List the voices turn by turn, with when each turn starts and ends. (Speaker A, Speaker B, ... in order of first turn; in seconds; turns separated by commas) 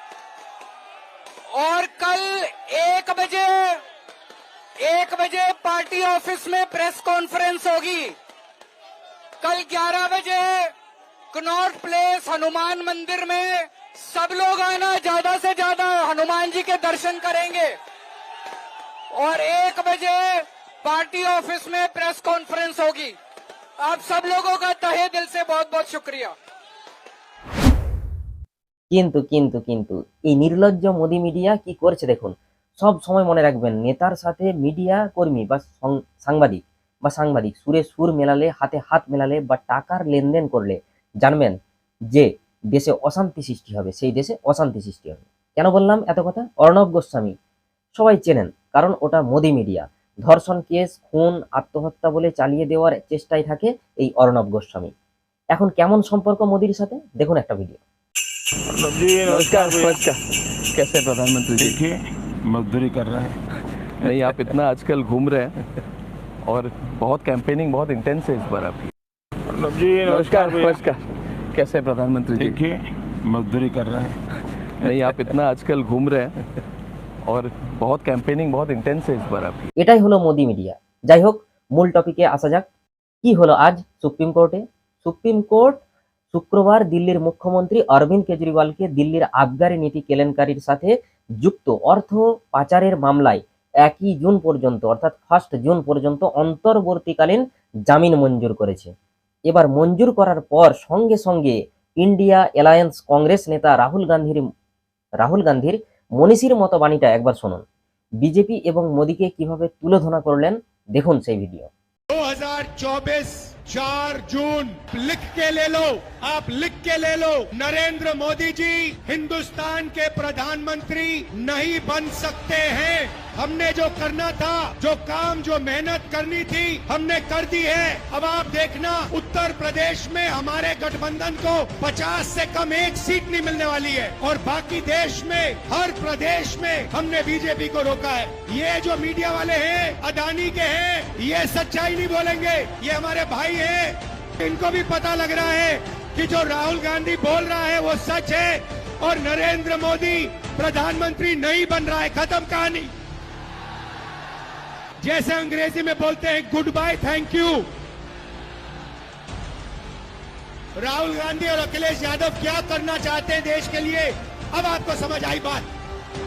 Speaker A: 1.5-3.8, Speaker A: 4.8-8.2, Speaker A: 9.4-10.7, Speaker A: 11.3-17.8, Speaker A: 19.1-23.2, Speaker A: 23.8-26.3, Speaker B: 28.9-41.6, Speaker B: 42.1-47.4, Speaker B: 48.0-54.9, Speaker B: 55.5-57.8, Speaker C: 58.7-60.0, Speaker D: 59.2-60.2, Speaker D: 60.7-61.8, Speaker C: 61.6-63.4, Speaker D: 64.0-65.6, Speaker D: 66.5-68.9, Speaker C: 69.5-70.8, Speaker D: 70.0-72.6, Speaker C: 72.4-74.2, Speaker D: 74.8-76.4, Speaker D: 77.3-79.7, Speaker B: 79.8-82.7, Speaker B: 83.2-98.9, Speaker B: 99.5-104.5, Speaker B: 105.2-107.6, Speaker B: 108.2-111.7, Speaker E: 112.1-152.9, Speaker E: 155.0-157.7, Speaker E: 160.8-165.7